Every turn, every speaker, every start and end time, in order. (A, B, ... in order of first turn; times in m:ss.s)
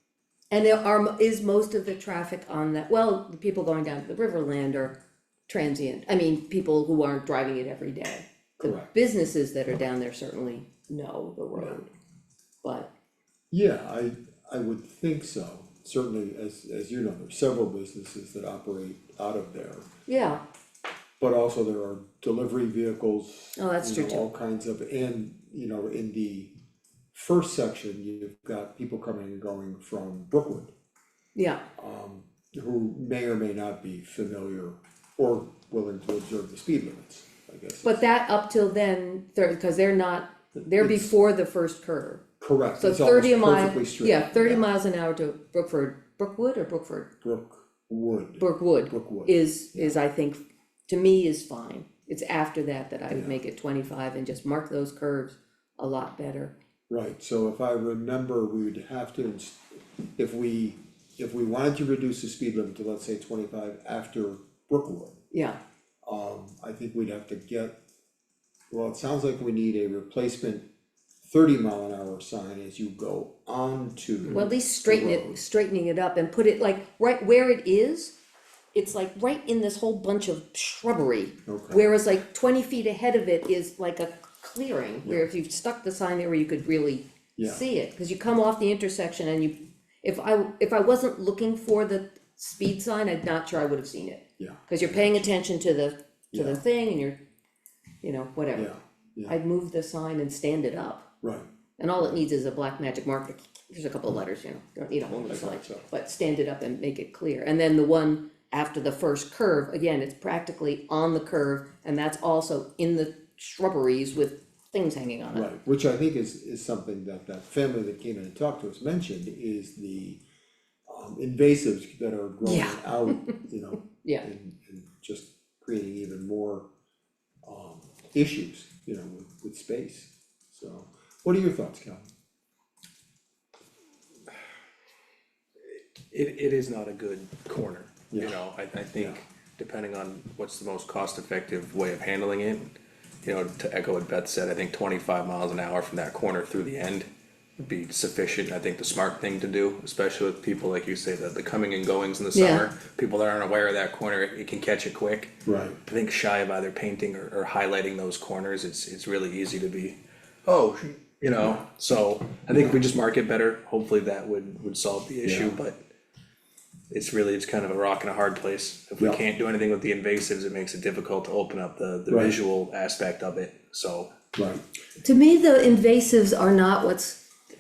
0:00.5-0:05.0 A
0:05.5-0:11.9 A
0:08.6-0:08.9 B
0:12.6-0:12.9 A
0:13.5-0:19.9 B
0:20.1-0:20.4 A
0:21.2-0:26.5 B
0:23.6-0:24.3 A
0:27.1-0:30.7 B
0:31.4-0:31.6 A
0:31.8-0:38.0 B
0:37.8-0:42.2 A
0:40.7-0:41.1 B
0:42.4-0:44.7 B
0:42.8-0:47.1 A
0:47.2-0:50.0 B
0:48.4-0:56.5 A
0:53.1-0:53.4 B
0:56.9-0:59.6 B
1:00.2-1:05.2 B
1:05.3-1:05.6 A
1:06.1-1:07.8 B
1:08.7-1:10.7 B
1:11.2-1:15.3 B
1:14.3-1:18.1 A
1:18.7-1:37.2 A
1:21.5-1:21.9 B
1:27.4-1:27.6 B
1:34.4-1:35.3 B
1:36.3-1:36.6 B
1:38.0-1:38.7 A
1:38.6-1:39.4 B
1:39.3-1:41.1 A
1:41.2-1:41.5 B
1:41.8-1:55.5 A
1:45.2-1:45.9 B
1:55.3-2:00.2 B
2:00.9-2:06.7 B
2:02.4-2:03.3 A
2:07.4-2:12.1 B
2:15.7-2:22.7 C
2:18.1-2:18.4 B
2:23.2-2:35.3 C
2:32.3-2:32.7 A
2:35.4-2:35.8 B
2:35.8-2:45.8 C
2:45.2-2:45.6 B
2:46.9-2:54.1 C
2:52.1-2:52.4 B
2:54.3-2:54.6 B
2:55.0-2:57.2 A